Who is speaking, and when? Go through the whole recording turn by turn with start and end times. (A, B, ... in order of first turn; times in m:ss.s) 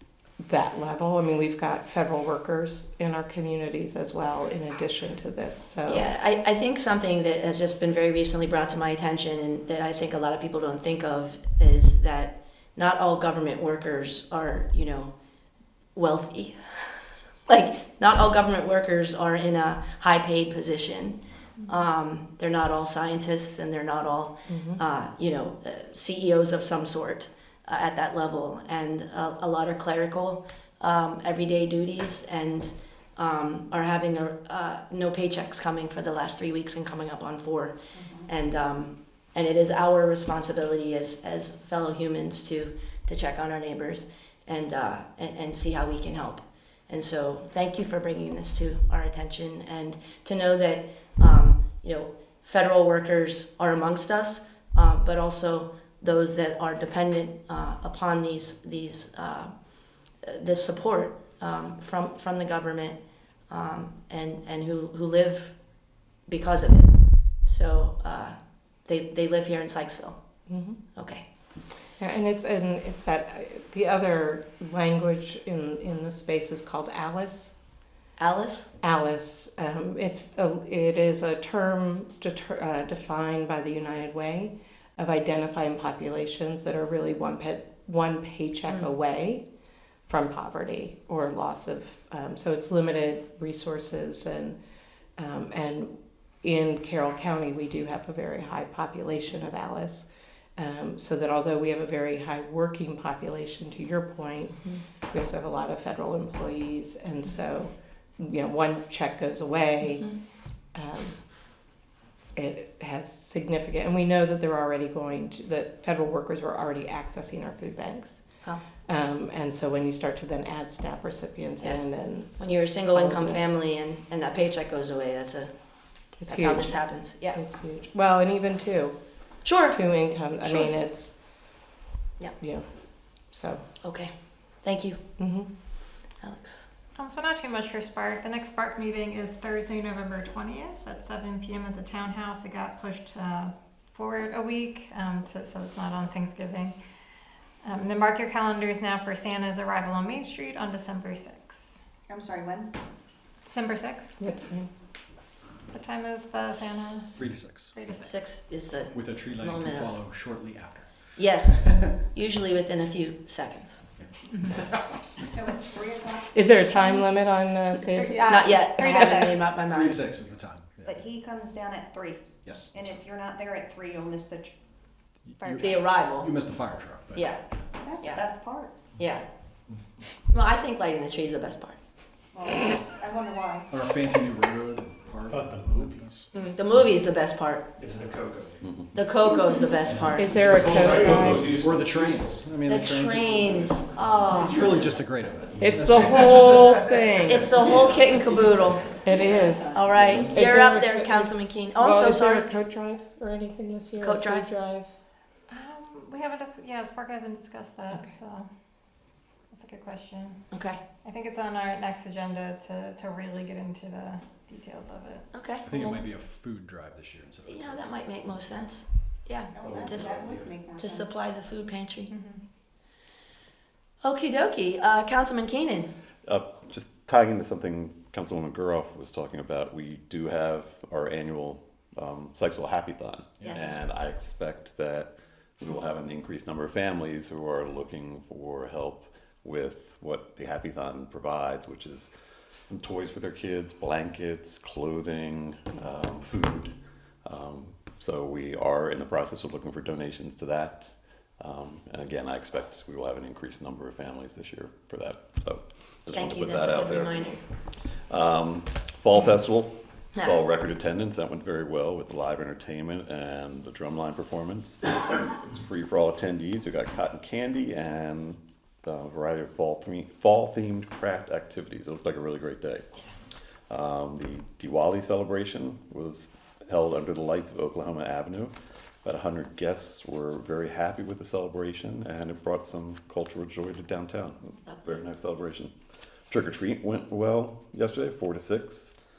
0:00.4-0:06.1 A
0:05.8-0:15.1 B
0:15.9-0:37.8 B
0:24.5-0:24.8 A
0:37.9-0:38.3 C
0:38.3-0:59.5 B
1:00.2-1:05.6 B
1:06.3-1:10.2 B
1:10.5-1:10.8 A
1:10.9-1:11.2 B
1:12.0-1:17.5 A
1:18.2-1:18.7 B
1:18.8-1:29.4 A
1:30.1-1:34.6 A
1:35.2-1:40.0 A
1:40.6-1:44.6 A
1:45.1-1:50.1 A
1:50.7-1:51.2 A
1:52.4-1:58.2 A
1:58.9-2:03.5 A
2:02.4-2:05.5 B
2:06.2-2:06.8 A
2:06.3-2:07.4 B
2:07.3-2:09.0 A
2:09.4-2:09.8 B
2:09.7-2:11.1 A
2:10.4-2:10.7 B
2:12.4-2:12.6 A
2:13.3-2:13.6 A
2:13.8-2:15.0 B
2:15.2-2:15.5 A
2:16.2-2:16.6 B
2:17.0-2:26.8 D
2:27.6-2:31.8 D
2:32.1-2:32.8 C
2:33.4-2:34.2 D
2:34.2-2:34.7 A
2:35.7-2:38.3 D
2:37.1-2:37.8 E
2:37.9-2:40.0 B
2:38.9-2:42.0 E
2:41.2-2:43.8 B
2:44.0-2:45.2 E
2:45.2-2:46.8 C
2:46.3-2:49.3 A
2:47.7-2:49.5 D
2:48.2-2:50.1 B
2:49.3-2:51.1 E
2:50.8-2:54.6 C
2:52.4-2:53.0 E
2:55.3-2:57.3 E
2:55.4-2:55.7 C
2:55.6-2:56.3 B
2:57.1-2:57.4 B
2:57.7-2:58.9 C
2:58.9-2:59.2 B
3:00.3-3:01.8 B
3:02.3-3:03.8 C
3:03.7-3:06.3 E
3:05.3-3:05.9 F
3:06.3-3:07.7 B
3:07.8-3:08.5 F
3:08.9-3:10.4 B
3:09.9-3:12.4 F
3:10.2-3:11.5 A
3:11.1-3:13.7 E
3:12.6-3:15.0 B
3:14.3-3:16.5 E
3:15.6-3:17.6 A
3:15.9-3:16.3 F
3:17.2-3:18.9 B
3:17.6-3:18.3 F
3:18.9-3:24.9 A
3:19.4-3:19.8 C
3:19.6-3:22.4 B
3:20.0-3:20.4 F
3:24.0-3:24.5 B
3:25.5-3:28.5 D
3:29.5-3:30.4 D
3:30.5-3:30.8 B
3:31.0-3:35.3 D
3:35.3-3:36.0 B
3:35.6-3:37.9 E
3:37.4-3:40.2 B
3:39.5-3:41.2 C
3:39.6-3:40.5 F
3:40.7-3:42.1 B
3:42.1-3:42.4 D
3:44.0-3:45.9 B
3:46.2-4:02.1 G
3:53.4-3:53.7 B
4:02.6-4:06.7 G
4:07.2-4:17.3 G
4:16.1-4:17.4 B
4:18.1-4:33.0 G
4:33.7-4:45.7 G
4:44.7-4:45.0 B
4:46.3-4:48.9 G